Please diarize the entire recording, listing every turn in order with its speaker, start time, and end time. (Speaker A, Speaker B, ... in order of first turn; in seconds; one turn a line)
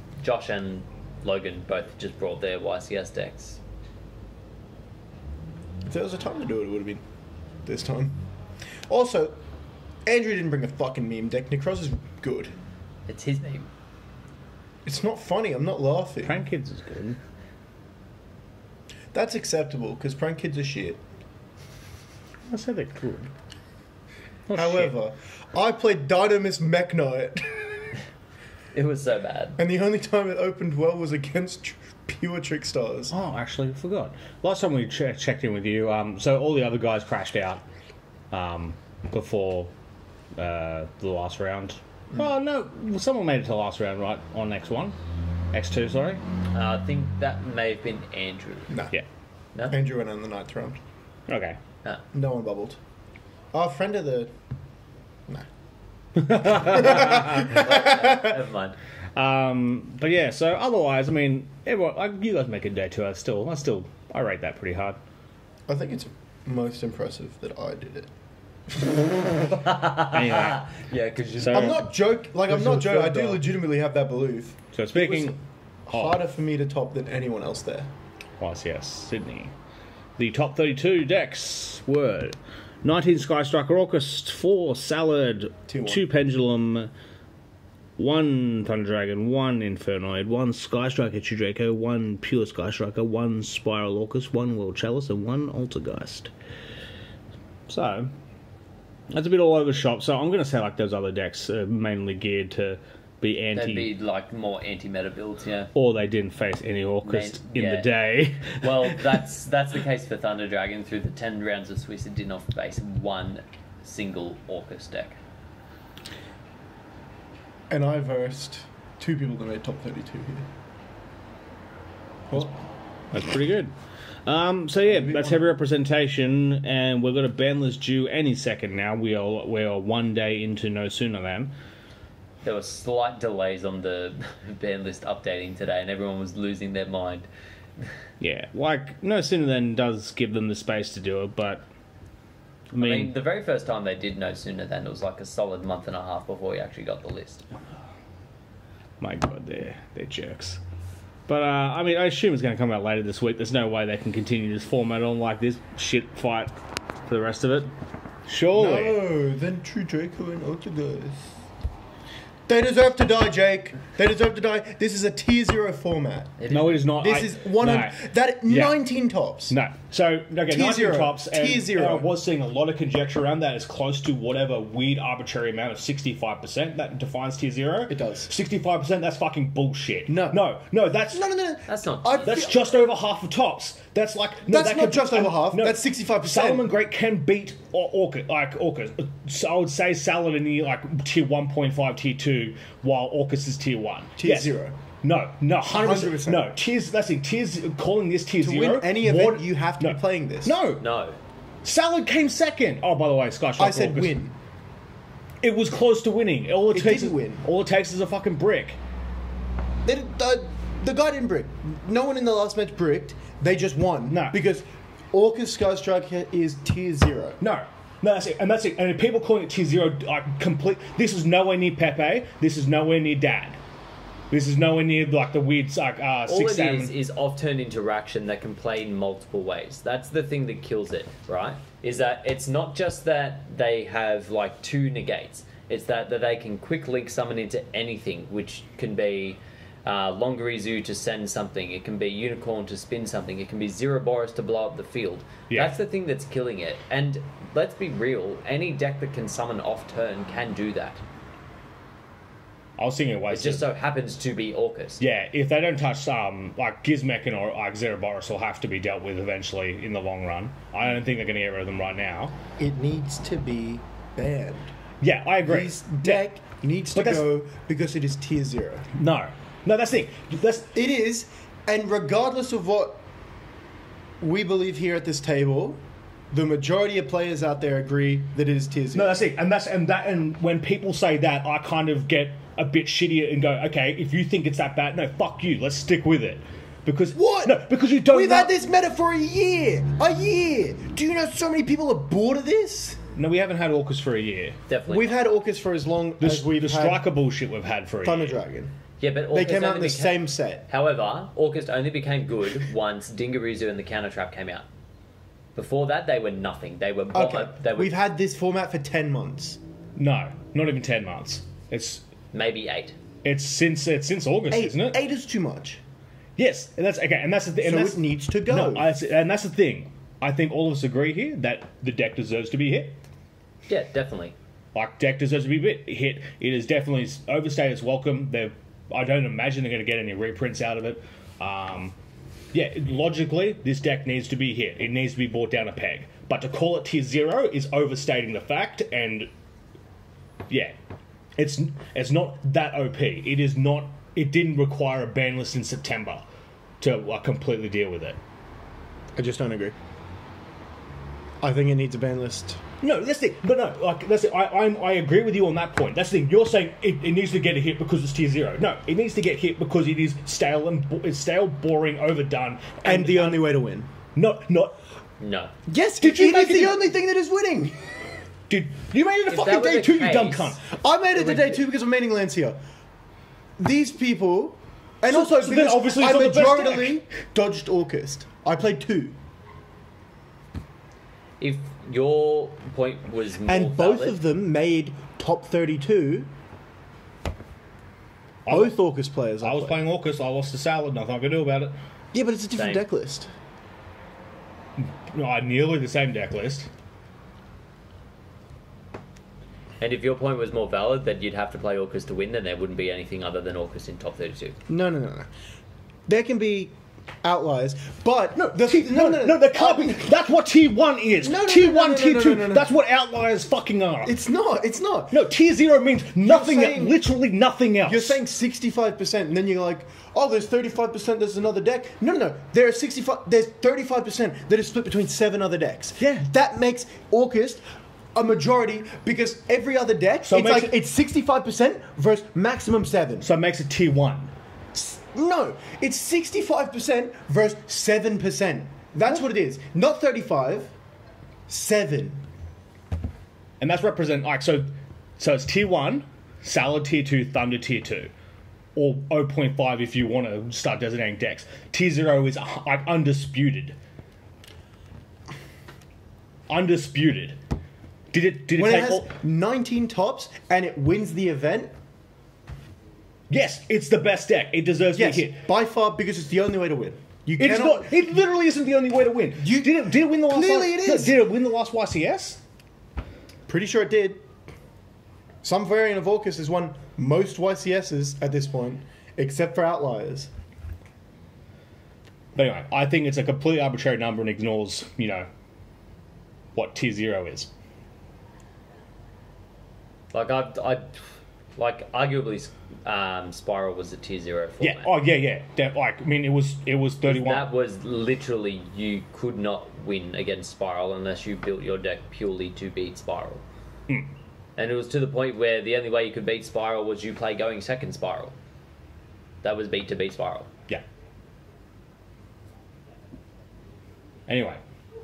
Speaker A: 0.2-3.6
Speaker B: 5.8-7.0
Speaker B: 7.7-8.2
Speaker B: 8.9-9.4
Speaker B: 10.1-12.5
Speaker A: 13.1-13.7
Speaker B: 14.8-16.4
Speaker C: 16.2-17.2
Speaker B: 19.1-21.0
Speaker C: 22.5-23.3
Speaker C: 24.5-24.9
Speaker B: 24.5-27.8
Speaker A: 28.7-29.6
Speaker B: 29.6-33.1
Speaker C: 33.1-37.6
Speaker C: 38.3-39.7
Speaker C: 40.4-45.0
Speaker C: 45.5-46.2
Speaker A: 46.5-48.8
Speaker B: 48.7-49.0
Speaker B: 49.7-50.8
Speaker C: 51.3-51.6
Speaker B: 52.1-52.8
Speaker B: 53.5-54.3
Speaker C: 56.2-57.7
Speaker B: 56.6-58.0
Speaker A: 57.4-58.8
Speaker C: 59.2-65.0
Speaker B: 65.7-68.1
Speaker A: 69.5-71.8
Speaker C: 70.1-70.7
Speaker C: 71.4-71.9
Speaker B: 71.5-77.9
Speaker C: 72.5-73.4
Speaker C: 74.7-76.2
Speaker C: 78.4-79.5
Speaker C: 80.2-86.9
Speaker B: 85.7-86.0
Speaker C: 88.0-96.3
Speaker C: 97.7-98.1
Speaker C: 99.1-103.9
Speaker A: 103.5-105.7
Speaker C: 105.7-109.0
Speaker A: 107.0-107.9
Speaker A: 108.5-115.2
Speaker B: 117.7-120.5
Speaker C: 123.1-123.7
Speaker C: 124.2-131.5
Speaker B: 124.9-125.4
Speaker A: 132.4-137.3
Speaker C: 138.2-141.7
Speaker C: 142.7-143.1
Speaker A: 142.8-147.5
Speaker C: 149.0-150.6
Speaker C: 151.3-156.5
Speaker C: 157.1-157.7
Speaker C: 158.3-159.1
Speaker B: 158.5-161.5
Speaker B: 162.5-169.6
Speaker A: 166.4-166.8
Speaker C: 166.5-168.8
Speaker C: 169.5-181.3
Speaker B: 170.5-172.1
Speaker B: 177.9-178.3
Speaker B: 180.1-180.4
Speaker B: 181.1-182.6
Speaker A: 181.7-182.6
Speaker C: 182.2-200.8
Speaker B: 184.5-186.7
Speaker B: 194.2-194.8
Speaker B: 195.7-196.6
Speaker B: 198.4-200.6
Speaker A: 200.8-201.2
Speaker C: 201.6-204.2
Speaker B: 203.6-204.4
Speaker C: 205.4-208.8
Speaker B: 206.7-207.4
Speaker B: 209.8-217.4
Speaker C: 214.1-214.4
Speaker C: 217.4-223.6
Speaker C: 224.3-226.9
Speaker A: 226.3-251.0
Speaker C: 245.5-245.8
Speaker C: 252.8-253.7
Speaker A: 253.3-255.0
Speaker C: 255.0-262.4
Speaker B: 262.6-264.8
Speaker C: 265.0-266.3
Speaker B: 265.4-268.9
Speaker C: 266.9-267.4
Speaker C: 268.9-270.7
Speaker B: 270.7-273.0
Speaker B: 274.2-279.2
Speaker C: 278.9-288.5
Speaker B: 287.1-293.0
Speaker C: 293.2-294.6
Speaker A: 294.7-295.2
Speaker B: 294.9-297.1
Speaker C: 296.2-298.4
Speaker B: 298.0-298.7
Speaker A: 299.0-304.7
Speaker B: 299.3-300.7
Speaker A: 305.6-307.9
Speaker B: 307.1-309.6
Speaker C: 310.0-312.0
Speaker A: 312.3-313.0
Speaker C: 313.2-315.0
Speaker B: 314.5-315.8
Speaker C: 316.4-323.0
Speaker B: 317.6-318.9
Speaker A: 323.7-324.4
Speaker C: 324.7-331.9
Speaker C: 332.5-339.3
Speaker C: 340.5-340.8
Speaker C: 341.4-346.2
Speaker C: 346.8-348.2
Speaker B: 349.1-349.8
Speaker B: 351.4-352.6
Speaker C: 352.8-363.6
Speaker B: 362.8-363.9
Speaker C: 364.1-364.8
Speaker A: 365.2-365.5
Speaker B: 365.7-367.8
Speaker C: 366.0-366.8
Speaker C: 368.5-370.7
Speaker A: 369.3-370.6
Speaker B: 370.7-372.6
Speaker B: 373.6-379.2
Speaker C: 375.1-377.0
Speaker A: 381.4-384.2
Speaker B: 383.5-386.3
Speaker C: 388.5-388.8
Speaker B: 388.5-389.8
Speaker C: 389.4-391.8
Speaker B: 392.1-393.3
Speaker A: 392.6-392.9
Speaker C: 394.8-396.7
Speaker A: 399.8-404.6
Speaker B: 404.7-405.3
Speaker B: 406.1-410.1
Speaker C: 408.4-414.1
Speaker B: 411.2-412.7
Speaker B: 414.0-415.2
Speaker C: 415.1-418.2
Speaker B: 416.2-417.0
Speaker B: 417.8-433.3
Speaker C: 426.0-426.3
Speaker C: 430.3-430.8
Speaker C: 433.2-434.3
Speaker B: 434.7-440.7
Speaker B: 441.5-442.3
Speaker C: 443.6-448.1
Speaker C: 448.8-453.8
Speaker C: 456.5-457.4
Speaker C: 458.1-459.1
Speaker B: 458.6-461.7
Speaker C: 463.3-465.4
Speaker B: 464.9-468.0
Speaker C: 467.4-472.4
Speaker B: 469.4-471.1
Speaker B: 473.5-474.2
Speaker B: 475.4-480.3
Speaker C: 482.4-485.3
Speaker C: 486.5-487.5
Speaker A: 490.1-491.0
Speaker A: 491.6-494.9
Speaker C: 494.6-497.5
Speaker A: 497.0-503.4
Speaker A: 504.6-508.4
Speaker A: 509.4-510.5
Speaker C: 514.3-514.6